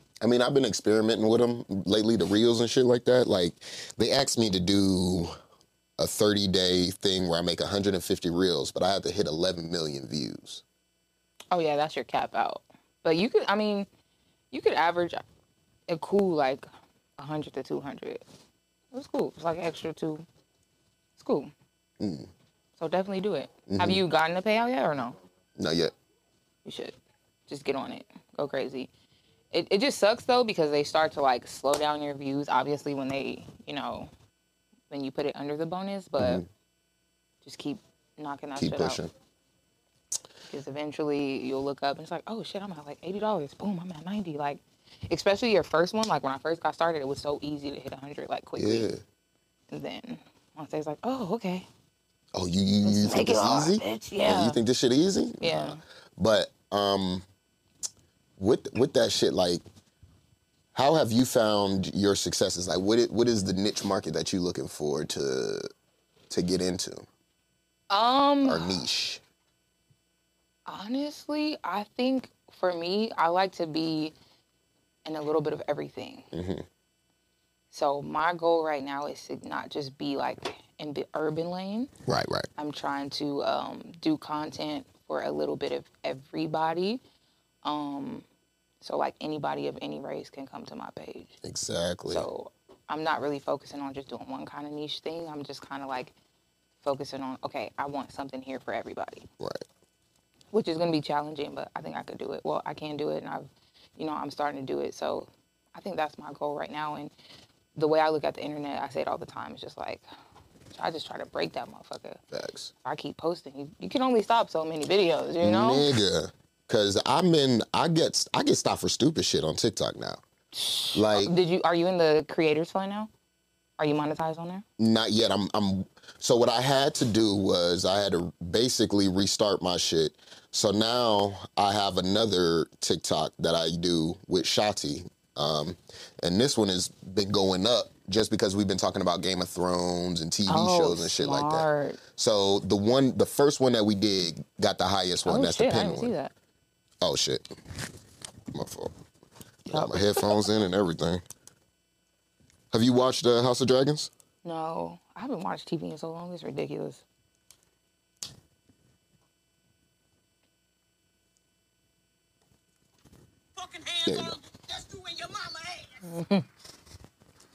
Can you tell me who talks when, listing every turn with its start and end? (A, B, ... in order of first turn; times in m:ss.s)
0:00.2-0:05.3 A
0:06.0-0:10.6 A
0:11.5-0:13.9 B
0:14.5-0:15.2 B
0:15.9-0:18.2 B
0:18.9-0:20.2 B
0:21.2-0:21.5 B
0:22.0-0:22.3 A
0:22.8-0:25.2 B
0:23.7-0:24.0 A
0:25.6-0:25.9 A
0:26.6-0:27.0 B
0:27.5-0:28.9 B
0:29.5-0:34.1 B
0:34.9-0:36.4 B
0:36.2-0:36.5 A
0:37.4-0:39.0 B
0:38.6-0:39.1 A
0:40.5-0:48.9 B
0:48.6-0:49.0 A
0:49.7-0:51.7 B
0:52.3-0:57.2 A
0:52.8-0:54.6 B
0:55.4-0:55.8 B
0:58.4-0:59.6 A
1:00.7-1:05.7 A
1:06.3-1:07.1 A
1:07.9-1:08.8 B
1:08.4-1:09.2 A
1:10.7-1:14.1 B
1:15.0-1:16.3 B
1:16.3-1:16.6 A
1:17.7-1:21.9 B
1:22.1-1:22.5 A
1:22.6-1:27.0 B
1:27.6-1:28.3 B
1:28.8-1:31.4 B
1:31.4-1:32.3 A
1:32.1-1:36.1 B
1:36.8-1:39.3 B
1:39.4-1:39.6 A
1:40.5-1:47.1 B
1:47.8-1:50.0 B
1:50.7-1:52.2 B
1:52.3-1:52.7 A
1:52.8-1:55.9 B
1:55.4-2:00.2 A
2:00.5-2:03.1 B
2:00.9-2:01.3 A
2:03.8-2:04.6 B
2:04.8-2:26.1 A
2:20.5-2:22.0 B
2:25.2-2:26.3 B
2:27.0-2:27.5 A
2:28.5-2:28.9 A
2:29.7-2:30.4 B
2:29.7-2:31.2 A
2:32.7-2:34.1 A
2:34.4-2:37.0 B
2:43.6-2:46.0 C
2:44.1-2:44.4 A
2:46.1-2:46.4 B